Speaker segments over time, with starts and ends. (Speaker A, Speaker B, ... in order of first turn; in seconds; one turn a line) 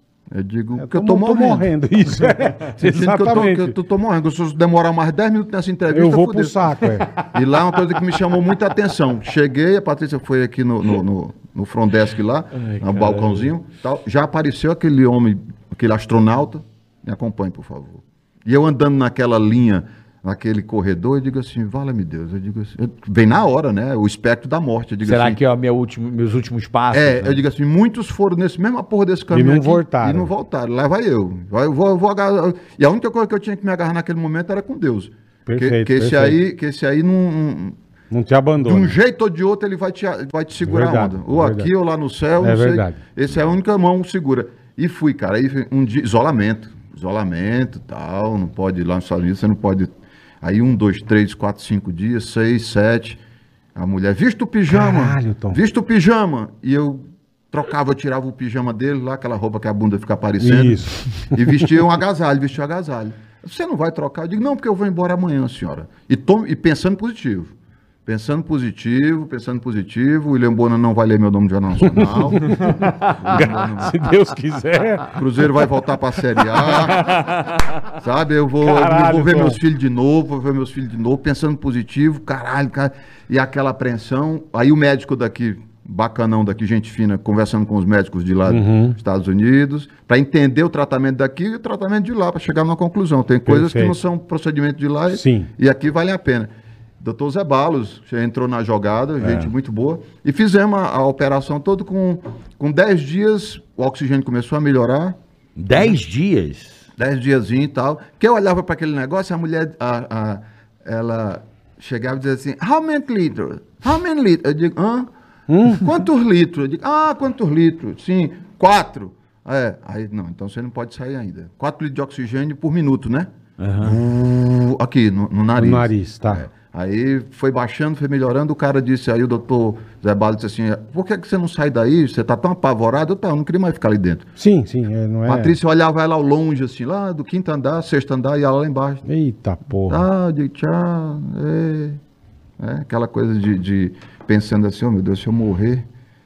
Speaker A: 0.3-1.7
Speaker B: 0.8-3.7
Speaker A: 2.8-25.4
Speaker B: 5.9-7.1
Speaker C: 12.5-13.5
Speaker C: 25.0-27.4
Speaker A: 26.9-37.8
Speaker B: 29.3-30.3
Speaker B: 35.5-36.4
Speaker B: 38.1-39.0
Speaker A: 38.6-53.2
Speaker B: 40.6-41.7
Speaker B: 42.4-43.0
Speaker A: 53.7-67.5
Speaker B: 54.7-55.6
Speaker B: 60.4-61.3
Speaker A: 68.0-74.0
Speaker B: 71.9-75.1
Speaker A: 75.1-77.2
Speaker C: 76.8-77.6
Speaker A: 77.9-105.2
Speaker B: 78.6-79.6
Speaker B: 88.5-89.0
Speaker B: 93.5-94.0
Speaker B: 95.1-95.5
Speaker C: 105.6-106.8
Speaker A: 107.0-115.1
Speaker B: 115.5-115.8
Speaker A: 115.7-134.2
Speaker C: 123.6-124.0
Speaker B: 125.6-126.4
Speaker B: 134.4-135.5
Speaker A: 135.3-139.0
Speaker B: 139.1-140.0
Speaker A: 139.9-142.0
Speaker A: 142.6-145.8